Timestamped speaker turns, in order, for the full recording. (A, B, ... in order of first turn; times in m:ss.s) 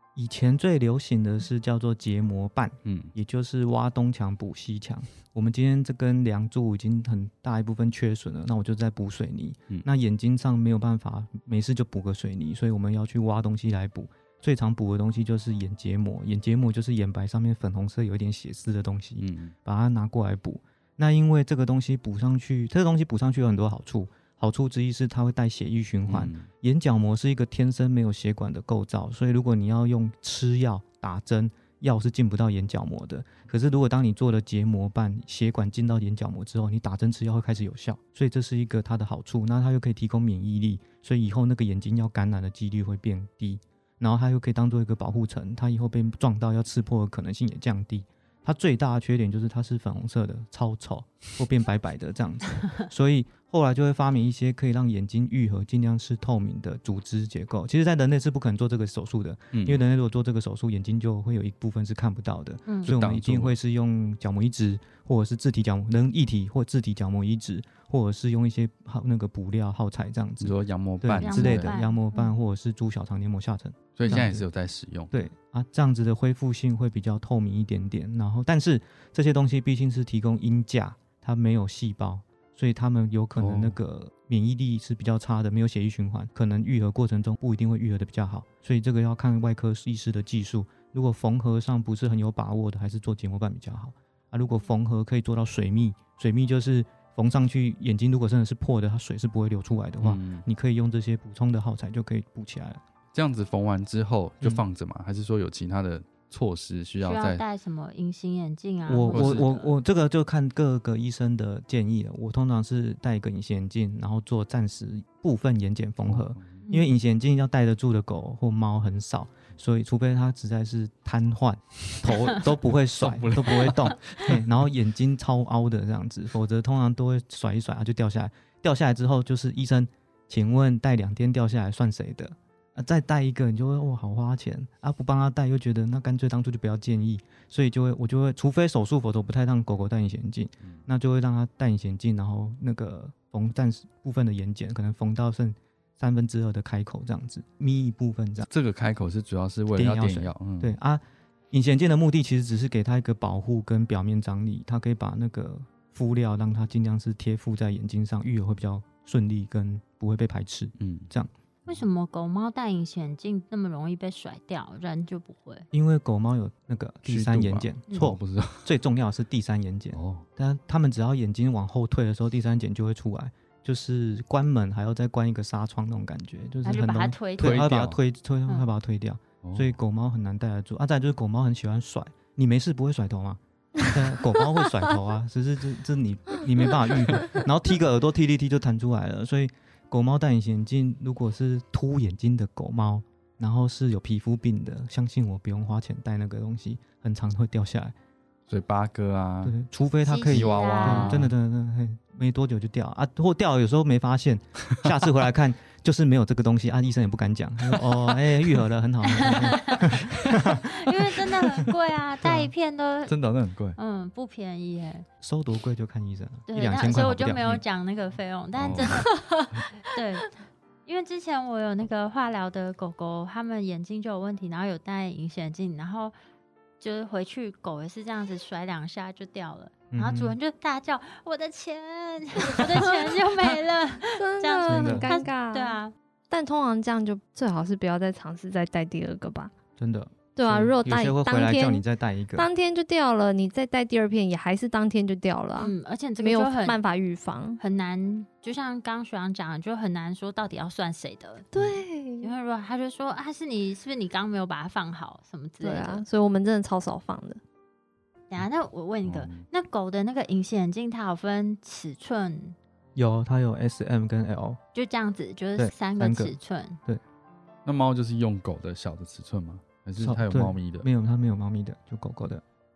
0:00.2-1:14.4 A
0:02.8-0:03.1 B
0:19.2-0:19.5 B
0:26.1-0:26.5 B
0:59.5-0:59.8 B
1:02.8-1:03.6 B
1:10.4-1:11.7 B
1:11.2-1:12.3 C
1:14.0-1:15.3 B
1:15.1-1:42.8 A
1:23.4-1:23.8 B
1:40.0-1:40.4 B
1:43.1-1:47.4 B
1:47.0-1:49.7 C
1:48.9-2:28.5 A
1:49.1-1:49.5 B
1:56.0-1:56.6 B
2:03.0-2:04.4 B
2:28.5-2:30.8 B
2:29.7-2:41.3 A
2:40.8-2:41.1 B
2:41.7-2:45.6 C
2:45.7-3:17.9 A
2:47.0-2:48.7 B
2:49.9-2:50.2 B
2:56.6-2:57.7 C
2:57.4-2:58.0 B
2:59.4-2:59.7 B
3:18.5-3:19.6 B
3:19.4-3:30.7 A
3:20.0-3:21.2 C
3:20.2-3:21.3 B
3:29.0-3:33.1 C
3:30.1-3:30.4 B
3:32.2-3:32.5 A
3:33.1-3:33.8 B
3:33.8-3:35.0 C
3:35.2-3:37.6 A
3:36.5-3:39.1 C
3:38.6-3:39.1 B
3:39.2-3:39.4 D
3:39.9-3:46.1 C
3:46.8-3:55.9 C
3:49.9-3:50.4 A
3:52.4-3:53.5 D
3:54.2-3:55.8 D
3:54.7-3:55.1 A
3:56.3-3:59.5 D
3:59.8-4:02.5 A
4:00.4-4:01.8 D
4:02.4-4:07.6 D
4:05.6-4:06.8 C
4:07.6-4:11.5 C
4:11.5-4:12.3 D
4:12.2-4:16.0 C
4:15.6-4:17.4 D
4:18.3-4:22.6 C
4:19.0-4:19.4 B
4:22.9-4:24.6 A
4:24.7-4:26.8 C
4:25.6-4:27.0 A
4:27.6-4:30.9 B
4:30.0-4:32.4 A